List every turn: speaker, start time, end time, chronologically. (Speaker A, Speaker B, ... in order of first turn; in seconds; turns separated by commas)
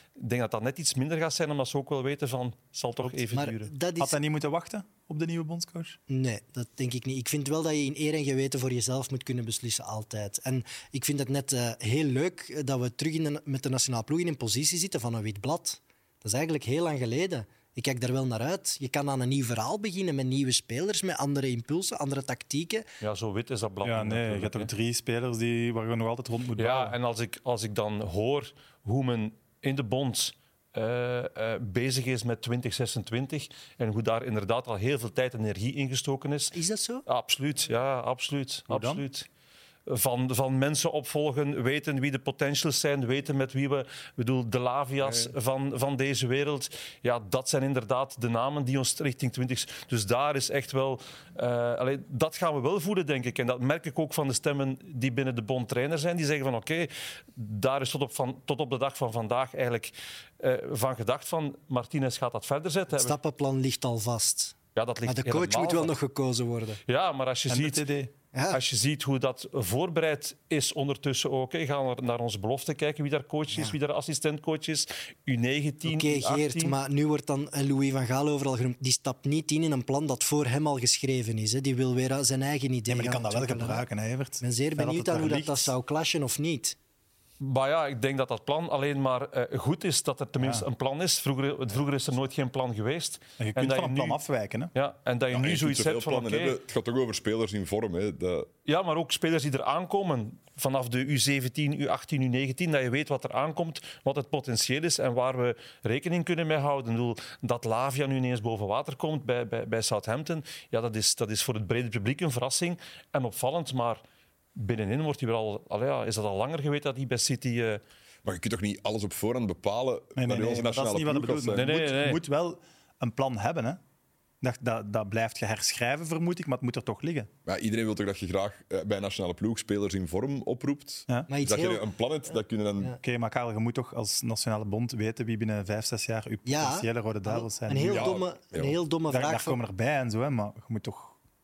Speaker A: 0.2-3.7, Speaker B: 3.3-4.2, Speaker C: 4.0-6.0, Speaker B: 6.1-22.9, Speaker A: 23.0-24.7, Speaker C: 23.8-26.9, Speaker A: 26.6-39.3, Speaker B: 36.5-37.0, Speaker C: 38.7-39.0, Speaker A: 39.9-63.2, Speaker B: 62.9-64.5, Speaker A: 64.8-65.9, Speaker B: 65.1-66.8, Speaker A: 66.9-67.8, Speaker C: 67.5-68.1, Speaker B: 68.3-68.6, Speaker A: 68.5-76.8, Speaker B: 75.9-83.8, Speaker C: 82.9-85.7, Speaker B: 84.4-86.8, Speaker A: 87.4-94.2, Speaker C: 90.4-90.7, Speaker C: 93.4-94.7, Speaker A: 94.8-96.6, Speaker D: 95.3-98.5, Speaker A: 98.7-114.0, Speaker A: 114.6-117.8, Speaker D: 118.2-121.8, Speaker C: 120.2-123.8, Speaker A: 121.5-122.2, Speaker C: 124.4-127.3, Speaker D: 127.5-133.0, Speaker B: 131.3-131.9, Speaker C: 133.0-138.2, Speaker B: 136.5-139.6, Speaker D: 137.9-138.8, Speaker C: 139.1-141.2